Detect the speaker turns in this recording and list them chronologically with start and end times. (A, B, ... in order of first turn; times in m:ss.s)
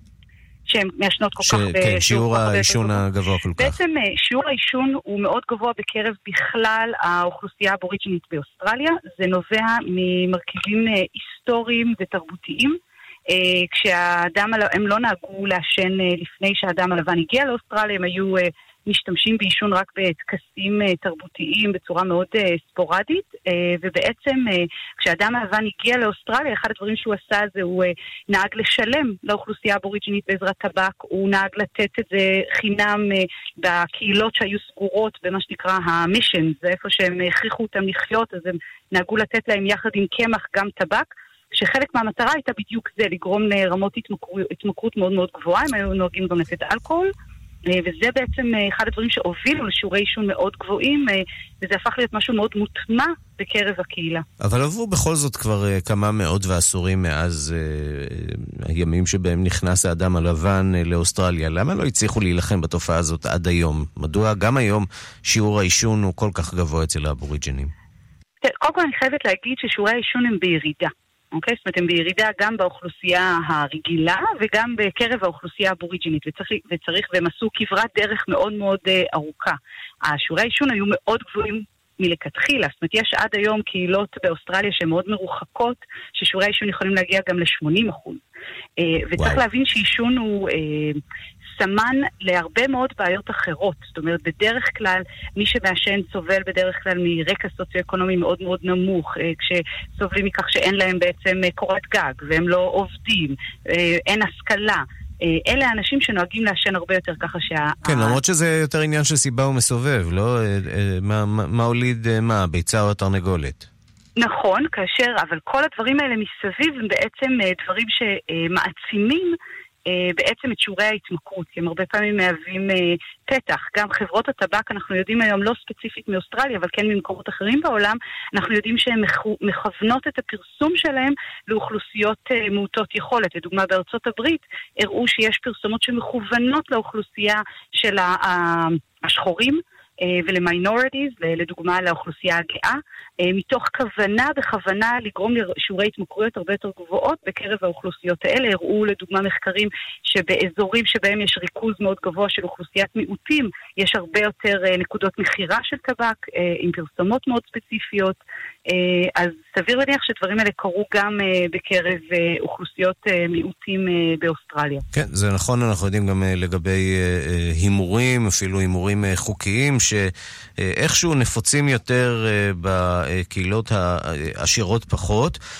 0:00.7-0:03.0 A
0:01.4-0:03.8 B
0:03.6-0:12.8 A
0:13.3-0:47.1 A
0:47.7-0:54.2 A
0:54.4-1:07.7 B
1:08.4-1:28.2 A
1:28.8-1:31.0 A
1:31.6-1:48.2 A
1:47.8-1:53.7 B
1:54.2-2:38.2 A
2:38.7-2:44.8 A
2:44.9-2:55.4 B